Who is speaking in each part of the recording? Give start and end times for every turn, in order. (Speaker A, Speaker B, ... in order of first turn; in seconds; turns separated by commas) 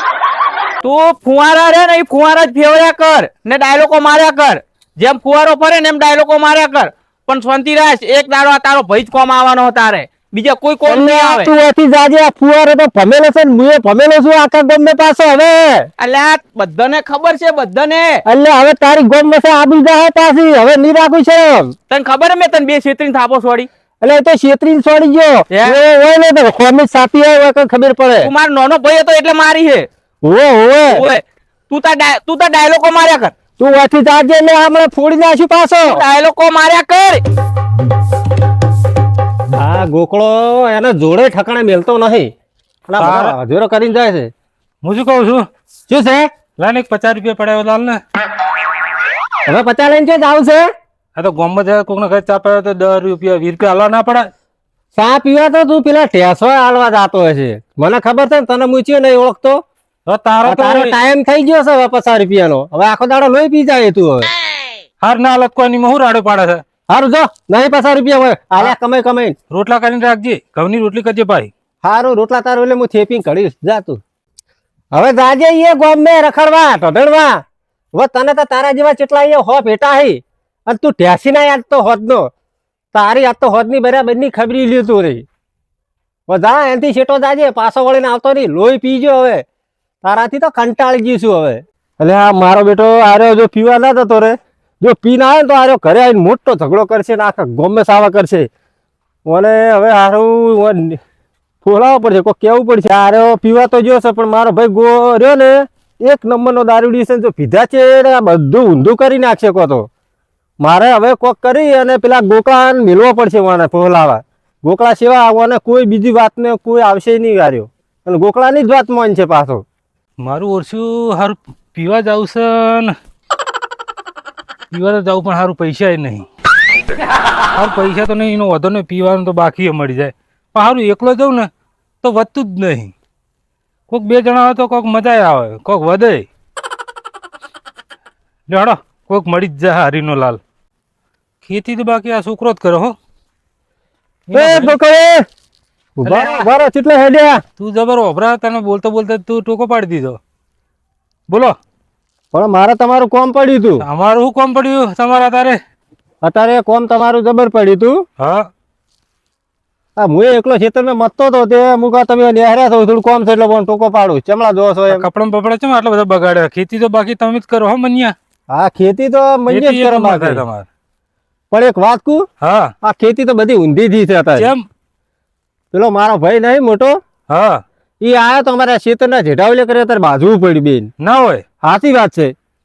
Speaker A: 0.8-11.5, Speaker B: 10.8-15.9, Speaker A: 16.0-18.2, Speaker B: 18.2-21.7, Speaker A: 21.9-23.7, Speaker B: 24.0-28.3, Speaker A: 25.5-25.8, Speaker A: 28.2-29.9, Speaker B: 30.2-31.0, Speaker A: 30.9-33.3, Speaker B: 33.6-36.0, Speaker A: 35.9-37.2, Speaker B: 39.5-42.3, Speaker B: 42.9-44.3, Speaker C: 43.0-43.3, Speaker C: 44.8-45.4, Speaker B: 45.9-46.3, Speaker C: 46.6-48.0, Speaker B: 49.5-50.6, Speaker C: 51.1-54.3, Speaker B: 54.9-59.6, Speaker C: 60.1-60.9, Speaker B: 60.4-64.3, Speaker C: 65.0-66.6, Speaker B: 66.9-69.3, Speaker C: 69.5-71.5, Speaker B: 71.8-74.0, Speaker B: 74.9-77.4, Speaker B: 77.9-82.3, Speaker B: 82.9-85.2, Speaker B: 86.3-89.4, Speaker B: 90.0-98.5, Speaker B: 99.3-101.0, Speaker B: 101.6-109.9, Speaker B: 110.6-119.6, Speaker C: 120.2-122.9, Speaker C: 124.7-126.2, Speaker C: 127.5-131.5, Speaker C: 132.0-132.9, Speaker C: 133.9-136.3, Speaker C: 138.5-140.4, Speaker C: 141.4-142.9, Speaker C: 144.3-144.8, Speaker B: 144.3-145.2, Speaker B: 146.0-147.4, Speaker C: 146.1-146.5, Speaker C: 147.6-150.2, Speaker C: 151.3-151.6, Speaker B: 152.3-153.8, Speaker C: 153.8-155.6, Speaker B: 156.2-158.0, Speaker C: 158.2-158.5, Speaker B: 160.0-165.1, Speaker C: 164.9-168.1, Speaker B: 168.5-170.4, Speaker C: 169.5-170.6, Speaker B: 171.5-172.2, Speaker C: 172.4-172.7, Speaker B: 172.8-174.5, Speaker C: 174.4-174.7, Speaker B: 175.7-177.0, Speaker C: 177.3-177.6, Speaker B: 178.0-180.9, Speaker C: 181.0-181.4, Speaker B: 181.6-182.3